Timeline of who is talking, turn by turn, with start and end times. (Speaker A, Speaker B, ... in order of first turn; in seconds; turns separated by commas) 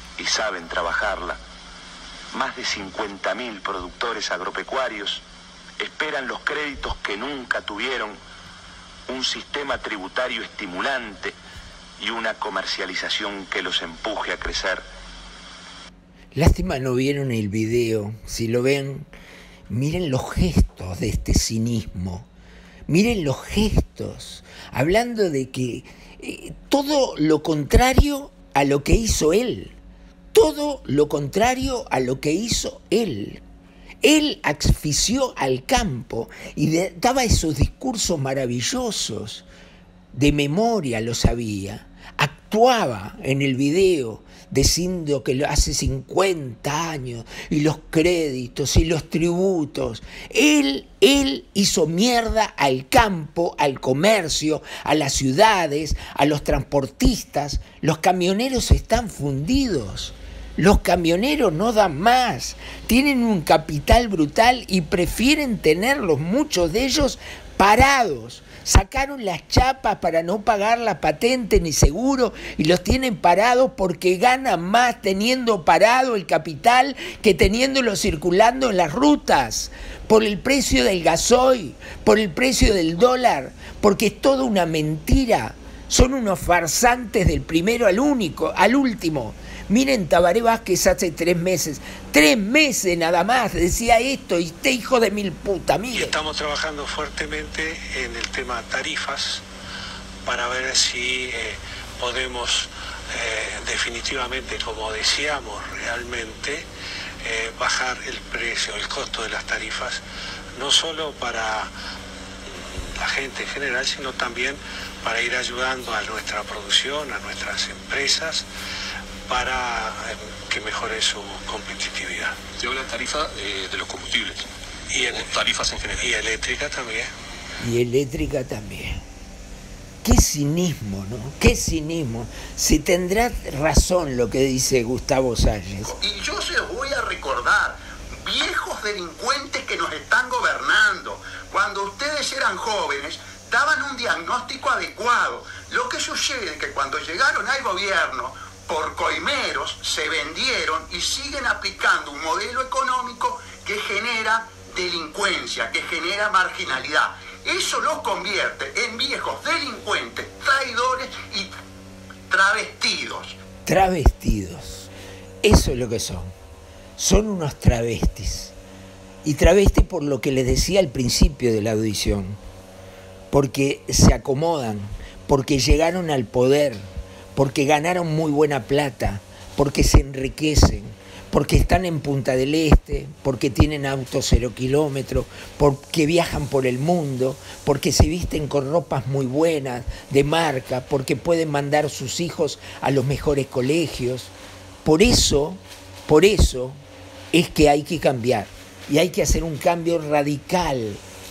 Speaker A: 0.2-1.4, Speaker A: 2.3-5.2, Speaker A: 5.8-8.2, Speaker A: 9.1-11.3, Speaker A: 12.0-14.8, Speaker B: 16.3-19.1, Speaker B: 19.7-22.3, Speaker B: 22.9-29.7, Speaker B: 30.3-33.4, Speaker B: 34.0-39.5, Speaker B: 40.1-96.2, Speaker C: 95.9-99.4, Speaker C: 100.2-106.7, Speaker C: 107.2-110.0, Speaker C: 110.6-111.7, Speaker C: 112.5-118.5, Speaker C: 119.3-122.4, Speaker D: 122.6-124.5, Speaker C: 124.9-125.4, Speaker D: 125.1-126.0, Speaker C: 126.0-127.1, Speaker B: 127.6-129.0, Speaker B: 130.0-135.9, Speaker E: 135.8-161.5, Speaker E: 162.3-163.3, Speaker B: 163.7-164.9, Speaker B: 165.4-166.3, Speaker B: 167.0-168.5, Speaker B: 169.2-172.4, Speaker B: 173.3-194.3, Speaker B: 194.8-196.8, Speaker B: 197.3-201.0